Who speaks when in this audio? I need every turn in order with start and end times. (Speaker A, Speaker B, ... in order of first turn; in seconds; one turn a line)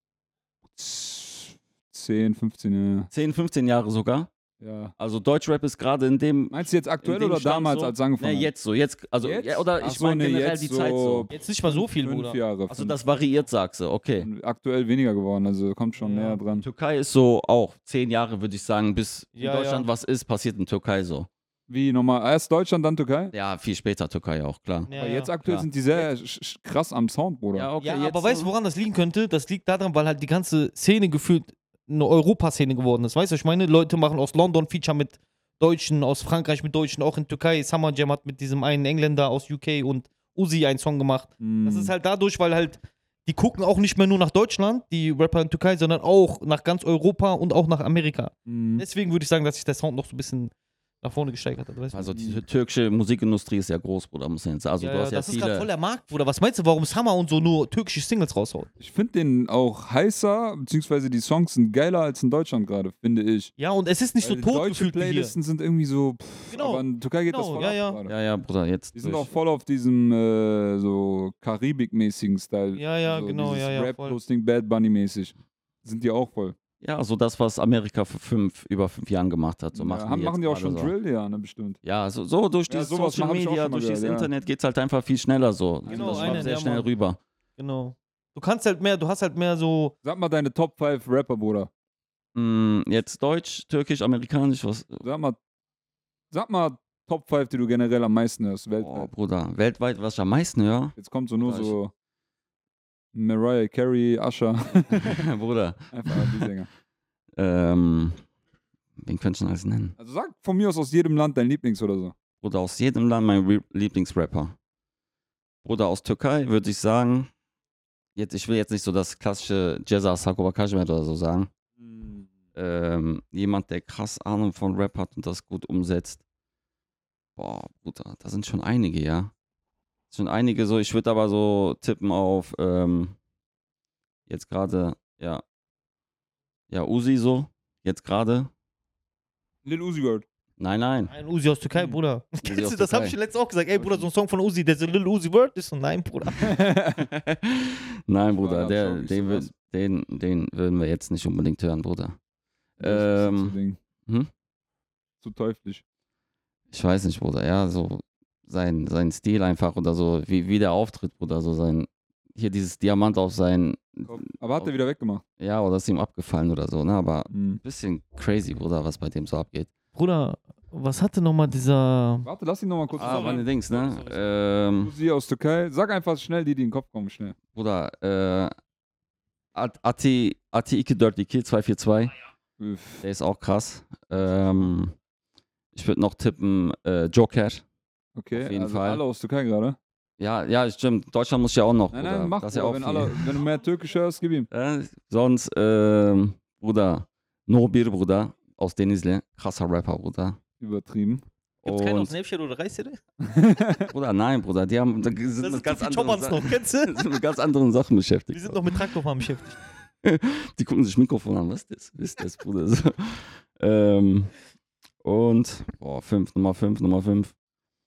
Speaker A: 0.7-3.1
Speaker B: 3.1-4.3
Speaker A: 4.6-4.9
Speaker B: 5.0-11.3
Speaker A: 6.5-8.5
Speaker A: 9.2-13.0
Speaker C: 11.3-12.4
Speaker B: 12.7-14.3
Speaker A: 14.2-16.6
Speaker C: 16.0-16.4
Speaker B: 16.6-21.3
Speaker C: 19.4-19.9
Speaker A: 21.7-23.3
Speaker B: 23.3-24.9
Speaker C: 24.9-25.3
Speaker A: 24.9-27.7
Speaker B: 27.5-28.5
Speaker C: 27.8-52.2
Speaker A: 41.4-41.9
Speaker A: 48.5-48.8
Speaker B: 51.9-55.7
Speaker A: 52.1-52.4
Speaker C: 54.8-58.7
Speaker A: 58.8-63.5
Speaker C: 63.6-65.3
Speaker A: 64.2-68.1
Speaker C: 66.5-68.0
Speaker B: 68.1-69.3
Speaker A: 69.0-76.6
Speaker C: 72.8-74.2
Speaker B: 76.8-80.9
Speaker A: 79.8-81.8
Speaker B: 81.8-87.2
Speaker A: 82.7-84.3
Speaker A: 85.9-86.5
Speaker C: 85.9-86.9
Speaker C: 87.6-90.0
Speaker A: 90.0-91.7
Speaker B: 92.3-95.0
Speaker A: 95.0-95.4
Speaker A: 96.3-99.1
Speaker B: 98.8-101.8
Speaker A: 101.0-101.9
Speaker A: 103.1-105.3
Speaker B: 104.9-106.5
Speaker A: 105.9-106.7
Speaker B: 107.4-108.2
Speaker B: 109.0-110.0
Speaker A: 110.0-112.2
Speaker B: 112.4-114.5
Speaker B: 115.7-117.3
Speaker B: 118.2-121.5
Speaker A: 121.8-122.3
Speaker B: 122.5-126.2
Speaker B: 127.4-129.3
Speaker B: 130.1-133.2
Speaker B: 134.3-135.4
Speaker B: 136.7-138.5
Speaker A: 139.6-140.2
Speaker B: 140.6-141.1
Speaker C: 141.1-146.6
Speaker B: 142.4-143.2
Speaker A: 143.8-144.1
Speaker A: 146.4-147.1
Speaker B: 147.0-152.2
Speaker A: 148.3-149.5
Speaker B: 152.8-153.6
Speaker A: 152.8-153.8
Speaker A: 155.2-155.8
Speaker B: 156.7-164.7
Speaker A: 164.1-165.2
Speaker B: 165.4-169.7
Speaker A: 167.3-167.6
Speaker C: 169.9-172.3
Speaker A: 172.2-174.0
Speaker C: 172.9-174.2
Speaker B: 173.0-174.9
Speaker A: 174.8-177.3
Speaker B: 177.5-178.5
Speaker B: 179.6-182.2
Speaker A: 182.6-183.0
Speaker B: 183.0-184.9
Speaker A: 184.2-184.7
Speaker B: 185.7-187.6
Speaker A: 188.2-189.8
Speaker B: 188.3-189.0
Speaker B: 190.2-193.4
Speaker A: 191.9-194.5
Speaker B: 194.5-200.4
Speaker A: 200.6-201.2
Speaker B: 201.6-202.1
Speaker C: 201.6-203.0
Speaker A: 203.2-203.9
Speaker B: 203.9-208.9
Speaker C: 205.4-207.0
Speaker C: 208.3-209.6
Speaker B: 210.0-214.3
Speaker B: 215.0-217.3